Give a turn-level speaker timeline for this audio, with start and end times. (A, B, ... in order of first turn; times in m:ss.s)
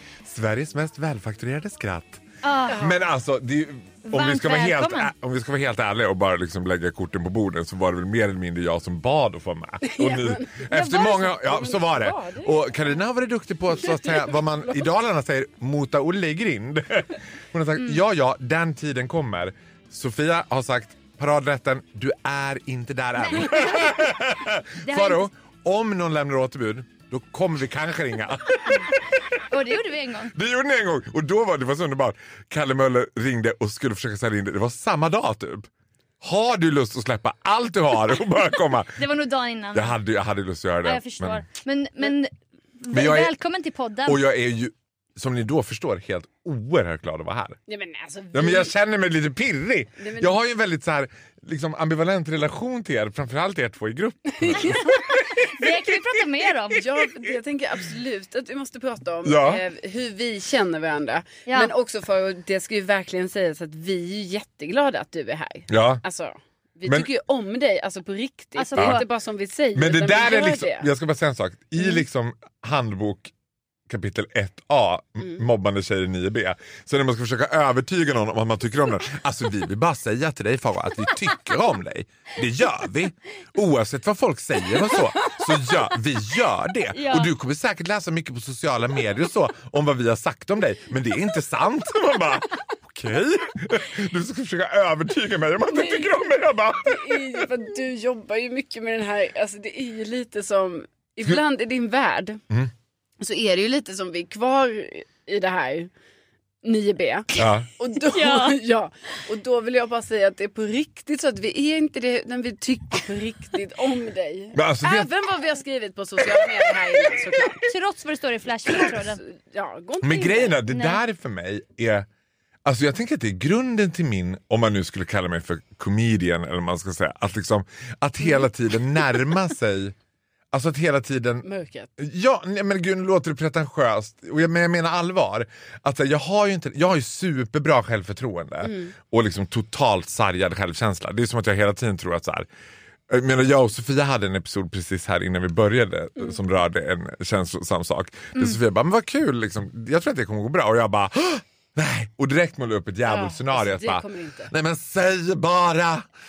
0:00.2-0:02.2 A
0:02.4-0:02.8 B
0:02.7-0:03.0 C
0:02.8-0:28.9 A
0:04.1-0:05.1 B
0:09.8-0:10.7 C
0:10.7-0:11.3 B
0:11.4-0:12.8 C
0:13.9-0:14.8 C
0:23.3-0:23.9 B
0:24.8-0:25.3 B
0:29.4-0:30.3 B
0:30.3-0:35.7 A
0:36.2-0:39.0 A
0:39.0-0:39.9 B
0:39.7-0:41.4 A
0:40.8-0:44.2 B
0:42.9-0:43.3 A
0:44.0-0:47.6 A
0:47.7-0:48.7 C
0:48.3-0:54.9 A
0:50.0-0:50.4 C
0:54.4-0:54.9 C
0:54.7-0:56.8 B
0:56.7-1:10.9 C
0:59.2-0:59.6 A
1:01.5-1:01.7 B
1:05.7-1:06.0 A
1:08.6-1:09.0 B
1:08.8-1:09.0 A
1:09.7-1:13.3 A
1:13.9-1:37.5 A
1:26.9-1:27.3 B
1:35.7-1:36.2 C
1:36.8-1:42.4 C
1:43.2-1:45.9 C
1:46.6-1:57.6 C
1:47.4-1:47.7 A
1:48.0-1:48.6 B
1:54.5-1:55.1 A
1:57.7-1:59.2 B
1:59.0-2:00.6 C
2:00.0-2:02.1 A
2:00.7-2:01.0 B
2:02.6-2:09.9 A
2:10.5-2:11.4 A
2:11.4-2:11.9 C
2:12.0-2:22.5 A
2:18.6-2:18.9 C
2:23.1-2:36.1 A
2:33.0-2:34.5 C